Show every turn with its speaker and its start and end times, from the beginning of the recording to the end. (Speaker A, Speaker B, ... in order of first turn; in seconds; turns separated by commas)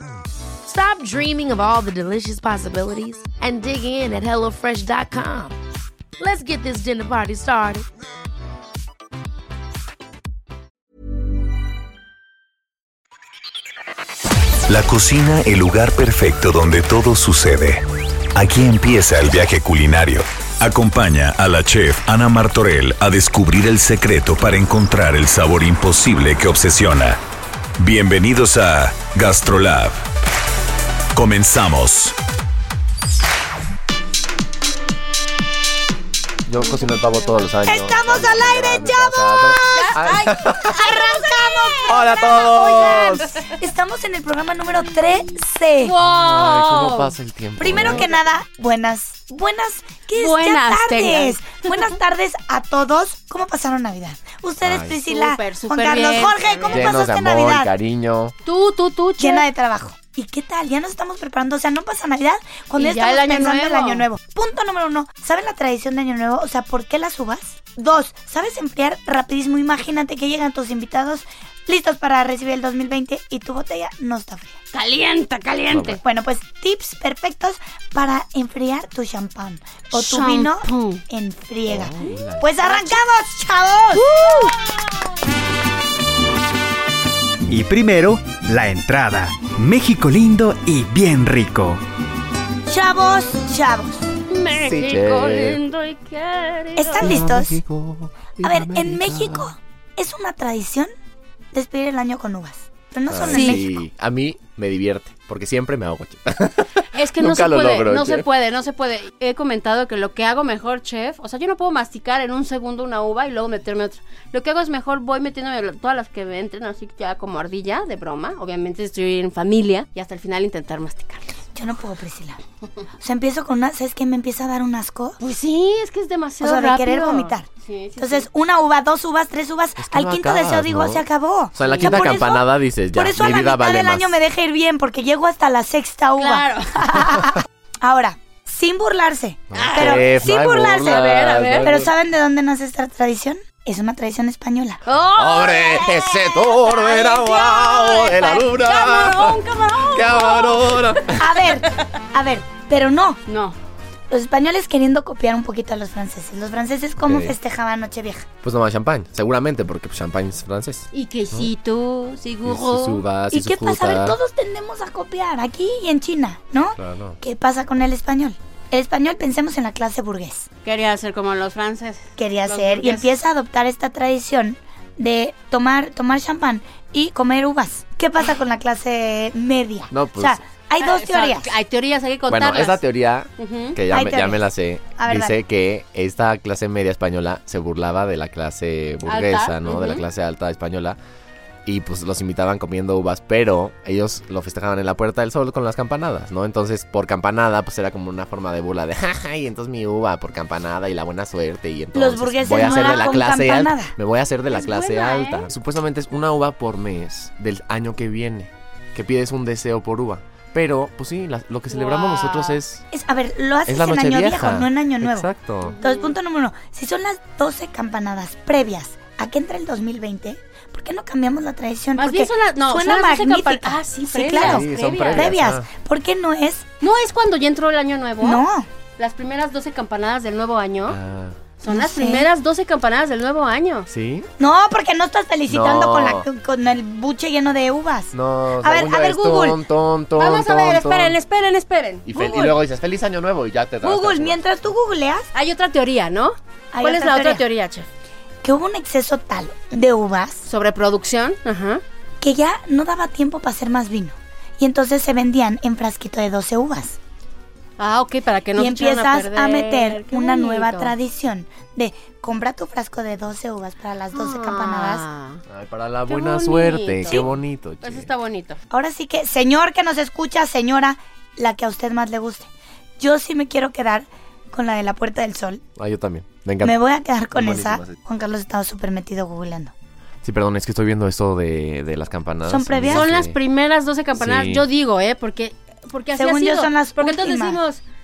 Speaker A: 0.7-5.6, Speaker A: 6.2-7.9, Speaker B: 14.7-27.2, Speaker B: 27.8-30.0, Speaker B: 31.1-32.2, Speaker C: 36.5-41.0, Speaker D: 37.6-39.9, Speaker E: 39.7-43.4, Speaker D: 40.6-46.0, Speaker C: 41.9-43.3, Speaker E: 45.8-47.1, Speaker C: 46.0-48.1, Speaker D: 47.6-57.7, Speaker E: 47.7-48.1, Speaker E: 50.2-51.9, Speaker C: 54.6-55.0, Speaker E: 55.1-56.9, Speaker C: 56.7-58.4, Speaker E: 58.5-59.5, Speaker D: 59.2-74.6, Speaker E: 62.8-64.1, Speaker E: 74.7-76.0, Speaker C: 75.7-76.0, Speaker D: 76.0-84.1, Speaker E: 79.9-81.0, Speaker C: 81.7-82.8, Speaker E: 84.0-84.9, Speaker F: 87.5-91.8, Speaker D: 92.7-94.0, Speaker E: 94.3-97.1, Speaker C: 94.5-95.6, Speaker D: 96.8-97.6, Speaker C: 97.0-99.5, Speaker D: 98.4-100.9, Speaker D: 101.5-103.8, Speaker C: 103.1-108.3, Speaker E: 103.3-103.6, Speaker E: 106.9-121.3, Speaker D: 121.5-122.4, Speaker D: 123.0-125.2, Speaker E: 125.2-128.3, Speaker D: 126.4-127.5, Speaker D: 128.0-141.1, Speaker C: 129.8-134.2, Speaker E: 131.6-132.0, Speaker E: 136.2-137.1, Speaker C: 139.5-141.9, Speaker E: 139.5-140.1, Speaker E: 140.9-141.7, Speaker D: 141.6-144.8, Speaker E: 144.9-151.2, Speaker C: 145.2-151.3, Speaker D: 151.1-153.2, Speaker E: 153.3-153.6, Speaker D: 154.1-158.3, Speaker C: 157.0-157.4, Speaker C: 158.4-161.5, Speaker E: 160.9-163.1, Speaker C: 162.5-164.2, Speaker D: 163.3-170.5, Speaker C: 166.8-167.2, Speaker E: 170.6-173.1, Speaker D: 172.2-181.5, Speaker C: 179.9-180.4, Speaker E: 180.8-182.8, Speaker C: 182.3-191.0, Speaker E: 183.4-183.8, Speaker D: 183.9-185.4, Speaker E: 189.1-190.1, Speaker C: 191.7-212.8, Speaker D: 201.9-203.9, Speaker E: 202.6-203.2, Speaker E: 204.5-205.5, Speaker E: 211.7-212.6, Speaker D: 212.9-215.3, Speaker C: 213.7-215.8, Speaker E: 215.6-216.1, Speaker D: 215.8-226.7, Speaker E: 222.0-225.3, Speaker C: 224.3-225.7, Speaker E: 226.8-228.4, Speaker D: 228.2-228.7, Speaker E: 229.0-231.0, Speaker C: 230.9-231.4, Speaker E: 231.6-233.9, Speaker D: 231.7-232.3, Speaker C: 233.9-234.3, Speaker D: 234.4-239.6, Speaker C: 235.5-236.2, Speaker C: 238.1-241.2, Speaker E: 240.2-242.6, Speaker C: 242.1-244.4, Speaker D: 243.8-245.3, Speaker E: 245.3-247.9, Speaker D: 246.7-247.4, Speaker D: 248.4-250.5, Speaker E: 250.5-251.8, Speaker D: 252.2-257.0, Speaker E: 257.8-260.9, Speaker D: 258.6-265.1, Speaker E: 264.1-265.4, Speaker C: 265.5-268.1, Speaker E: 266.1-267.3, Speaker E: 267.8-268.6, Speaker D: 268.7-275.6, Speaker C: 275.8-276.8, Speaker D: 276.6-279.7, Speaker C: 277.3-278.0, Speaker C: 280.2-283.4, Speaker D: 282.5-283.1, Speaker E: 282.9-287.8, Speaker C: 284.1-284.6, Speaker D: 286.2-287.6